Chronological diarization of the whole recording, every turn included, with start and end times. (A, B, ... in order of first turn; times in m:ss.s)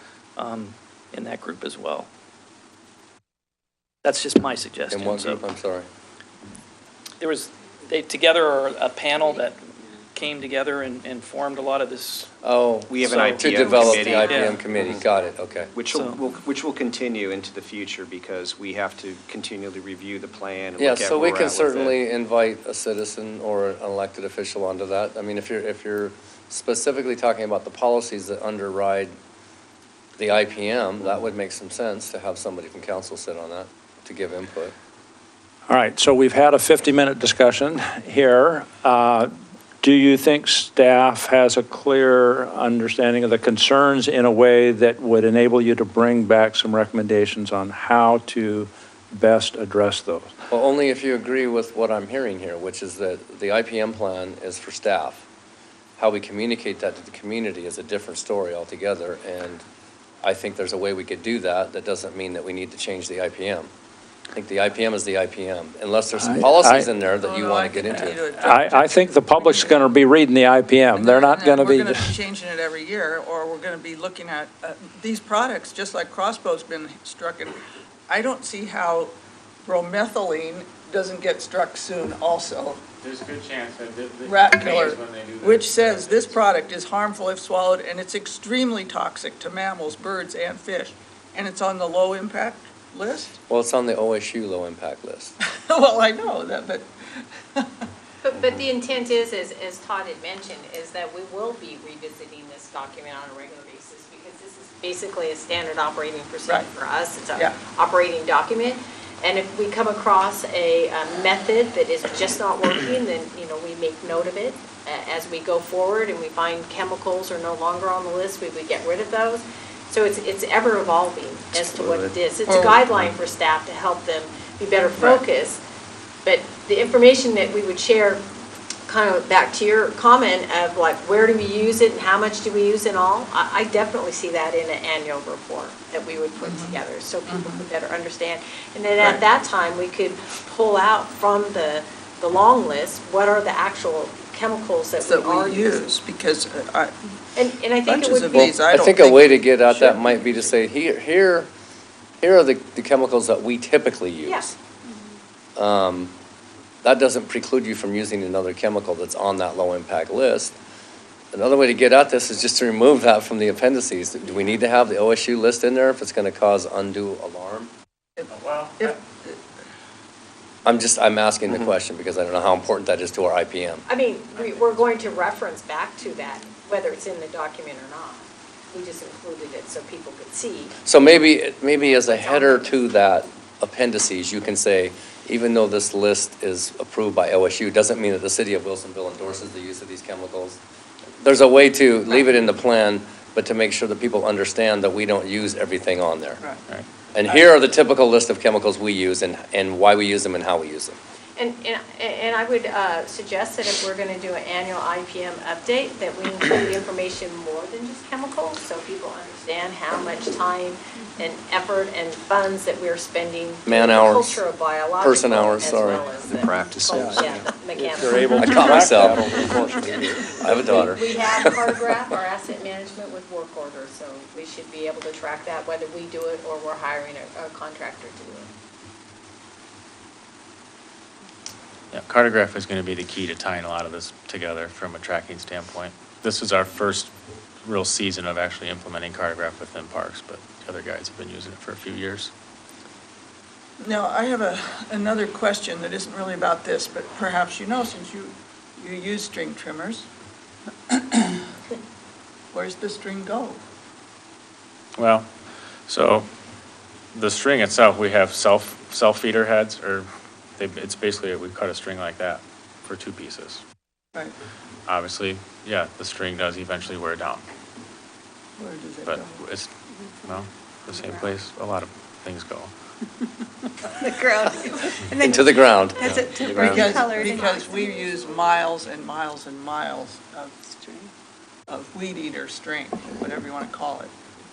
0:00.4-0:02.1 A
0:04.0-0:05.4 A
0:04.9-0:05.9 B
0:07.2-0:12.3 A
0:12.4-0:15.7 B
0:12.9-0:15.1 C
0:13.0-0:14.6 A
0:13.8-0:14.6 D
0:15.7-0:22.0 C
0:15.9-0:16.3 A
0:20.8-0:29.1 B
0:30.2-0:34.7 B
0:35.7-0:39.3 E
0:39.8-0:50.3 E
0:50.5-0:55.2 B
0:56.0-0:59.6 B
1:00.2-1:03.7 B
1:04.3-1:08.2 B
1:06.2-1:06.9 E
1:07.1-1:09.9 F
1:08.0-1:12.1 E
1:10.9-1:19.1 F
1:19.6-1:22.8 F
1:23.0-1:26.4 G
1:24.2-1:33.4 F
1:33.5-1:35.4 B
1:35.4-1:36.9 F
1:38.2-2:05.6 D
2:02.5-2:02.8 F
2:06.2-2:08.2 D
2:08.9-2:25.8 D
2:16.4-2:17.6 F
2:25.0-2:26.9 F
2:27.4-2:28.6 D
2:27.8-2:30.2 F
2:28.4-2:31.5 B
2:32.2-2:34.5 B
2:34.2-2:34.5 D
2:35.6-2:36.1 B
2:36.8-2:40.5 B
2:41.3-2:47.7 B
2:48.2-2:49.4 F
2:48.3-2:49.0 G
2:50.6-2:53.8 B
2:53.9-3:00.7 D
3:00.8-3:10.6 B
3:02.3-3:02.6 D
3:11.2-3:16.4 B
3:17.1-3:21.0 B
3:21.4-3:38.4 D
3:33.6-3:34.4 B
3:35.0-3:36.1 B
3:36.3-3:37.2 C
3:36.8-3:40.3 E
3:38.4-3:39.3 B
3:40.3-3:41.8 B
3:40.4-3:48.5 D
3:51.9-3:57.1 G
3:57.6-4:02.3 G
4:03.8-4:10.1 F
4:10.9-4:11.4 F
4:12.5-4:13.6 F
4:15.0-4:15.3 G
4:15.9-4:16.3 G
4:17.1-4:23.6 G
4:24.9-4:27.4 G
4:28.6-4:29.4 F
4:29.0-4:29.7 G
4:30.2-4:32.7 G
4:34.0-4:35.3 H
4:35.2-4:36.1 B
4:36.0-4:37.3 G
4:36.3-4:40.6 F
4:36.7-4:37.7 H
4:41.7-4:44.1 F